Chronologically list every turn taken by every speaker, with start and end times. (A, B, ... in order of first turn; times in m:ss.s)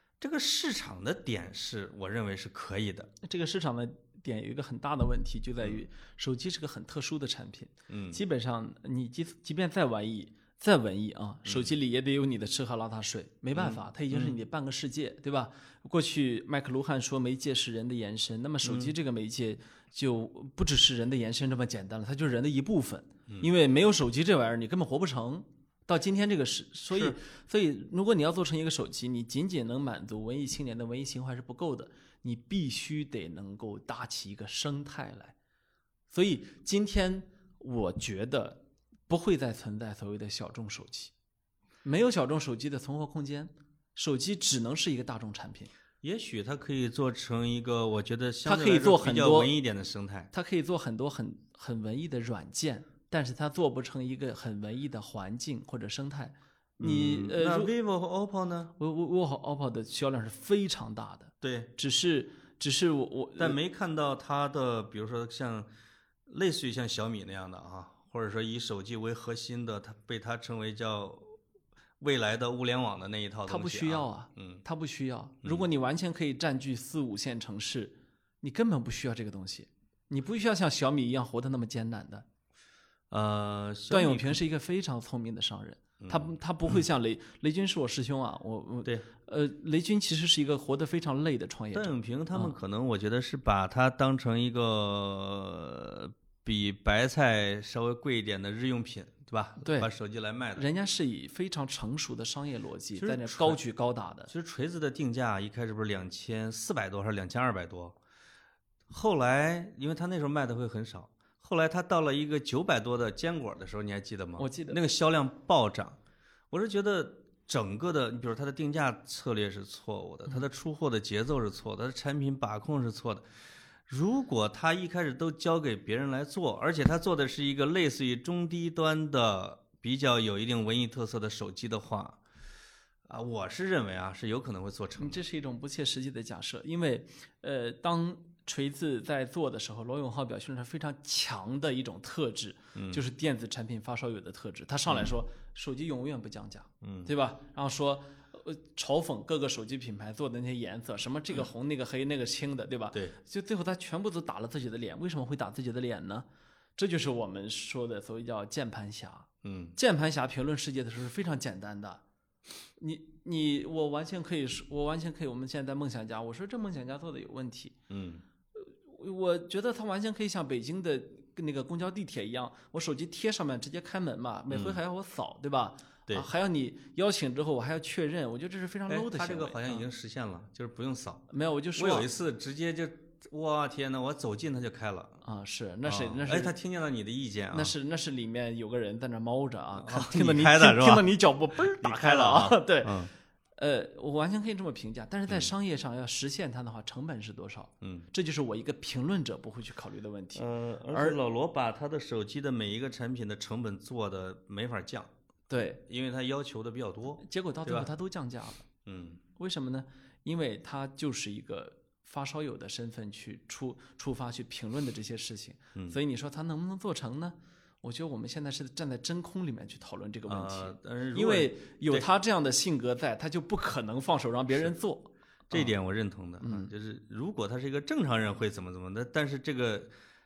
0:00.2-0:03.1 A
0:03.2-0:35.4 B
0:07.9-0:08.2 A
0:11.4-0:11.7 A
0:13.5-0:14.4 A
0:18.6-0:18.9 A
0:26.9-0:27.2 A
0:36.1-0:41.1 B
0:41.8-0:45.7 B
0:46.0-0:50.3 A
0:48.4-0:49.5 B
0:50.3-0:57.7 B
0:56.8-0:58.7 A
0:58.8-1:03.6 B
1:01.4-1:01.7 A
1:03.4-1:05.7 A
1:06.3-1:11.4 A
1:12.0-1:14.6 A
1:13.5-1:22.3 B
1:23.1-1:24.4 A
1:23.9-1:32.6 B
1:26.0-1:26.3 A
1:31.7-1:40.7 A
1:39.6-1:39.9 B
1:40.6-1:44.3 B
1:43.0-1:43.6 A
1:44.3-1:48.0 A
1:48.9-1:56.0 A
1:54.4-1:54.8 B
1:56.5-2:03.2 A
2:03.9-2:12.2 A
2:13.1-2:15.2 A
2:15.0-2:36.3 B
2:22.7-2:23.0 A
2:26.8-2:27.1 A
2:36.8-2:42.0 B
2:39.4-2:39.8 A
2:42.8-2:47.8 B
2:47.9-2:48.2 A
2:48.6-2:59.8 B
2:54.5-2:54.8 A
2:58.9-3:05.2 A
3:01.3-3:02.1 B
3:05.2-3:06.5 B
3:05.8-3:07.7 A
3:07.5-3:13.0 B
3:09.8-3:11.1 A
3:11.6-3:13.1 A
3:13.6-3:21.2 B
3:17.8-3:18.1 A
3:20.3-3:25.1 A
3:25.5-3:25.8 B
3:25.8-3:27.9 A
3:27.2-3:28.7 B
3:28.8-3:29.2 A
3:29.4-3:45.7 B
3:40.3-3:42.1 A
3:45.5-3:49.9 A
3:46.4-3:46.7 B